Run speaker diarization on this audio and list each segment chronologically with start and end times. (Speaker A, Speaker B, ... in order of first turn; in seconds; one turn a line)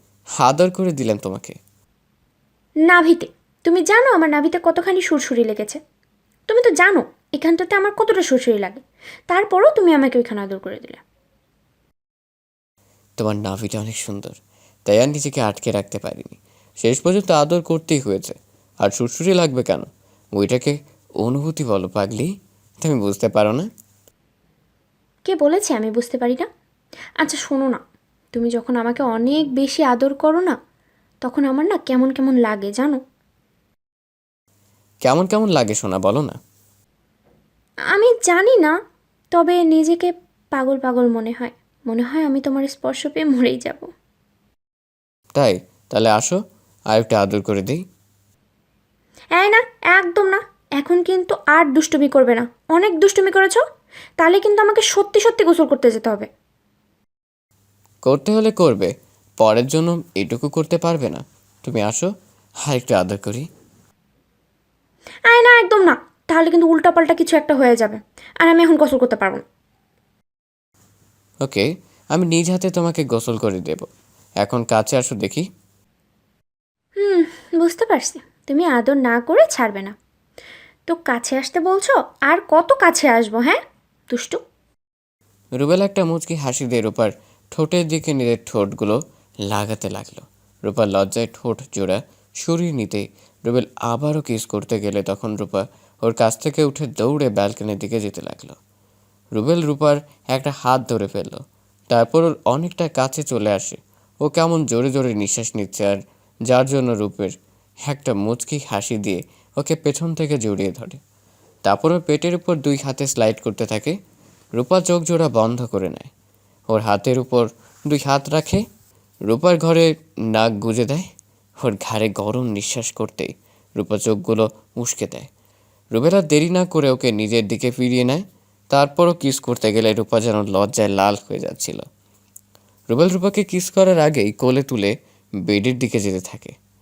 Speaker A: 0.4-1.6
Speaker B: 2.9-5.8
Speaker B: 6.5-11.0
Speaker A: 13.2-22.3
Speaker A: 22.8-23.7
Speaker B: 25.3-26.5
Speaker B: 27.2-27.8
Speaker B: 28.3-30.6
Speaker B: 31.2-33.0
Speaker A: 35.0-36.4
Speaker B: 37.9-38.7
Speaker B: 39.3-43.9
Speaker A: 45.3-46.4
Speaker A: 46.9-47.8
Speaker B: 49.4-53.6
Speaker B: 54.2-56.3
Speaker A: 58.0-62.1
Speaker A: 62.7-63.5
Speaker B: 65.3-69.4
Speaker A: 71.4-73.9
Speaker A: 74.4-75.5
Speaker B: 77.0-79.9
Speaker B: 80.9-83.6
Speaker B: 84.1-84.4
Speaker A: 85.5-98.6
Speaker A: 99.3-107.3
Speaker A: 107.9-111.0
Speaker A: 111.7-114.0
Speaker A: 114.6-116.1
Speaker A: 116.7-118.6
Speaker A: 119.3-121.0
Speaker A: 121.6-125.3
Speaker A: 125.9-131.8
Speaker A: 132.9-134.9
Speaker A: 135.5-136.6